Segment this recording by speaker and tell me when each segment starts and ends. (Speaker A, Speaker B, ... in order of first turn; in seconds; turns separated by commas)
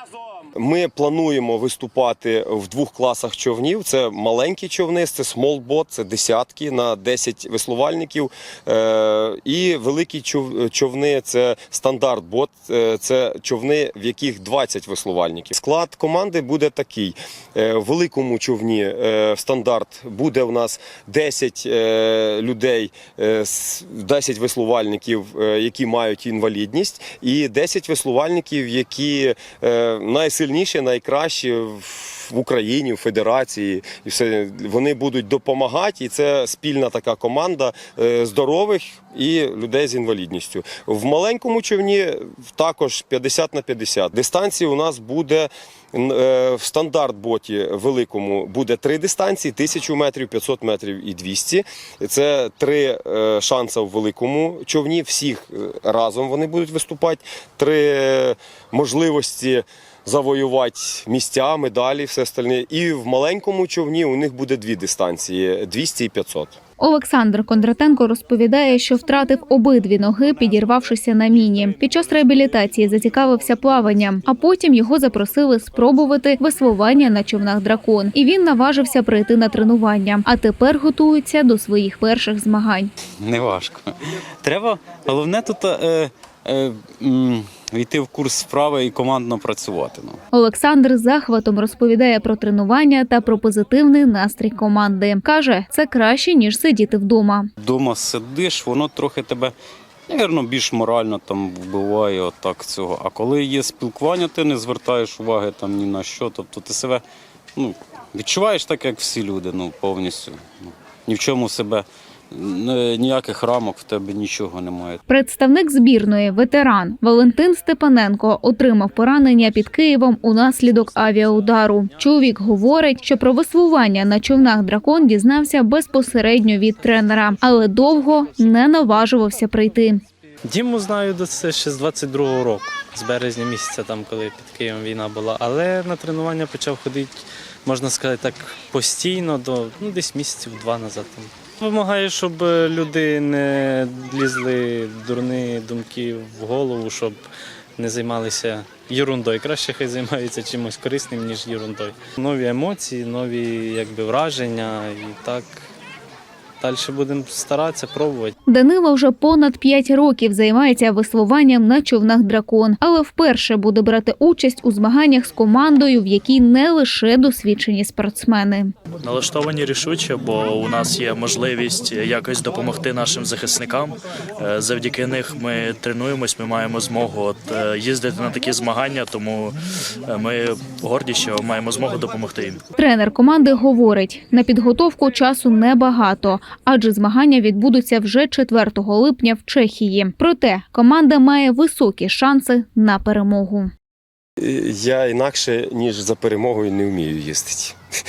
Speaker A: 0.3-66.6, Speaker B: 66.8-82.9, Speaker C: 83.2-90.2, Speaker B: 90.3-97.5, Speaker C: 97.6-99.5, Speaker C: 100.1-107.0, Speaker C: 107.5-115.0, Speaker B: 115.1-130.0, Speaker D: 130.4-147.2, Speaker D: 147.8-155.6, Speaker D: 156.6-158.3, Speaker B: 158.5-168.7, Speaker E: 169.0-179.5, Speaker E: 180.1-182.6, Speaker B: 182.8-193.7, Speaker A: 194.4-197.8